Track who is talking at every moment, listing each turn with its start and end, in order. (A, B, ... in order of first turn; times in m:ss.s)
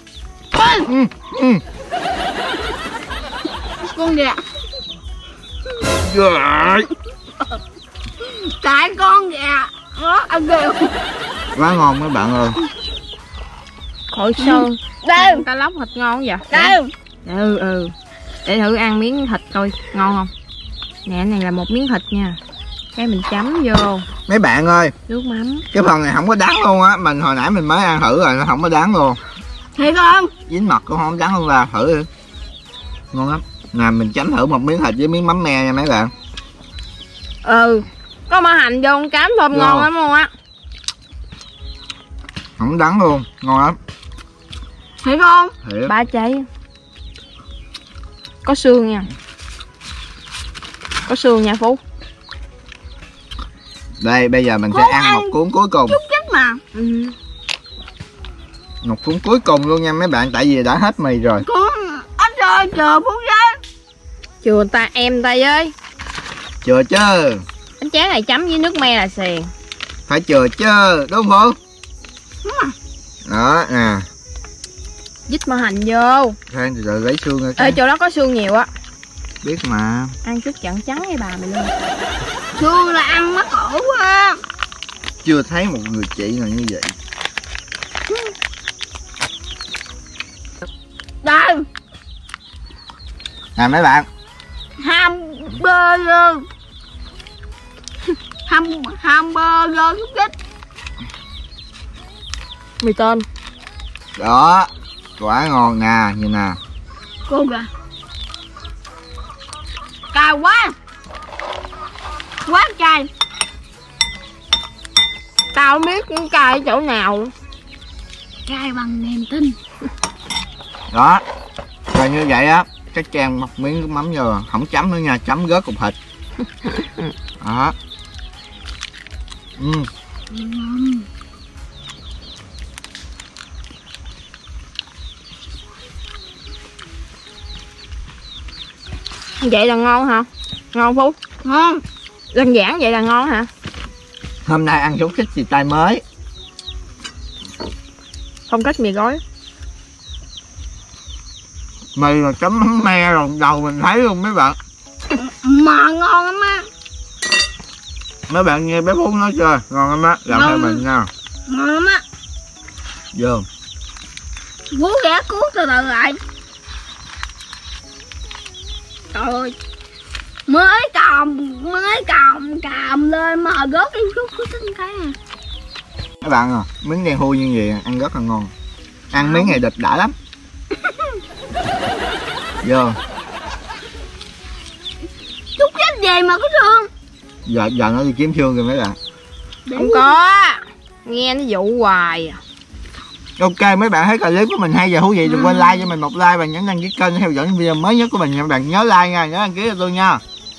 0:00.5-0:00.9 A
0:00.8-0:01.6 B
0:03.8-0:04.4 A
0:05.9-0:06.9 B
0:08.2-0:11.0 A
0:11.5-0:12.6 B
0:14.1-0:17.9 C
0:14.4-0:15.4 A
0:16.5-0:16.9 A
0:18.4-0:20.3 C
0:21.0-0:22.4 C
0:22.9-0:24.0 C
0:24.3-0:24.9 B
0:25.1-0:25.6 C
0:25.7-0:29.2 B
0:29.8-0:30.3 A
0:30.5-0:32.1 B
0:33.1-0:36.1 B
0:37.4-0:40.3 C
0:39.5-0:39.9 B
0:42.6-0:43.8 B
0:45.0-0:45.5 A
0:45.6-0:45.9 B
0:45.8-0:46.4 C
0:48.4-0:49.1 C
0:51.1-0:51.8 C
0:54.0-0:56.0 B
0:54.7-0:55.4 A
0:55.9-0:56.6 A
0:56.7-0:57.1 C
0:58.8-1:01.4 B
1:01.4-1:03.6 A
1:04.4-1:05.7 C
1:06.6-1:07.4 B
1:07.8-1:09.5 C
1:10.1-1:11.6 B
1:12.4-1:12.7 A
1:13.2-1:14.0 B
1:15.3-1:16.4 C
1:16.5-1:17.8 B
1:17.6-1:18.7 C
1:19.4-1:20.1 B
1:20.2-1:21.7 C
1:22.6-1:24.4 A
1:25.2-1:26.9 B
1:31.2-1:31.6 A
1:33.6-1:34.1 B
1:34.8-1:36.4 A
1:38.4-1:40.3 A
1:42.8-1:43.2 C
1:44.2-1:46.6 B
1:47.3-1:47.7 A
1:50.1-1:50.7 A
1:52.4-1:53.1 A
1:55.5-1:57.3 C
1:58.5-1:59.6 A
2:00.9-2:01.2 B
2:01.9-2:06.0 B
2:06.8-2:07.1 C
2:07.4-2:07.7 B
2:09.6-2:09.9 B
2:10.3-2:11.1 A
2:19.4-2:21.2 C
2:21.4-2:21.8 A
2:22.3-2:23.5 C
2:24.4-2:26.0 B
2:28.5-2:29.2 C
2:31.9-2:34.6 B
2:35.1-2:36.7 A
2:38.3-2:41.1 B
2:40.3-2:40.8 A
2:41.5-2:42.0 A
2:43.1-2:43.4 B
2:44.7-2:46.2 A
2:49.1-2:49.5 A
2:50.5-2:55.2 A
2:56.2-2:58.5 B
2:59.1-3:00.1 B
2:59.2-2:59.6 A
3:00.7-3:01.2 A
3:02.6-3:03.0 B
3:05.6-3:06.9 A
3:07.4-3:09.0 B
3:09.6-3:10.1 A
3:09.8-3:12.4 C
3:13.4-3:20.2 B
3:15.2-3:15.8 A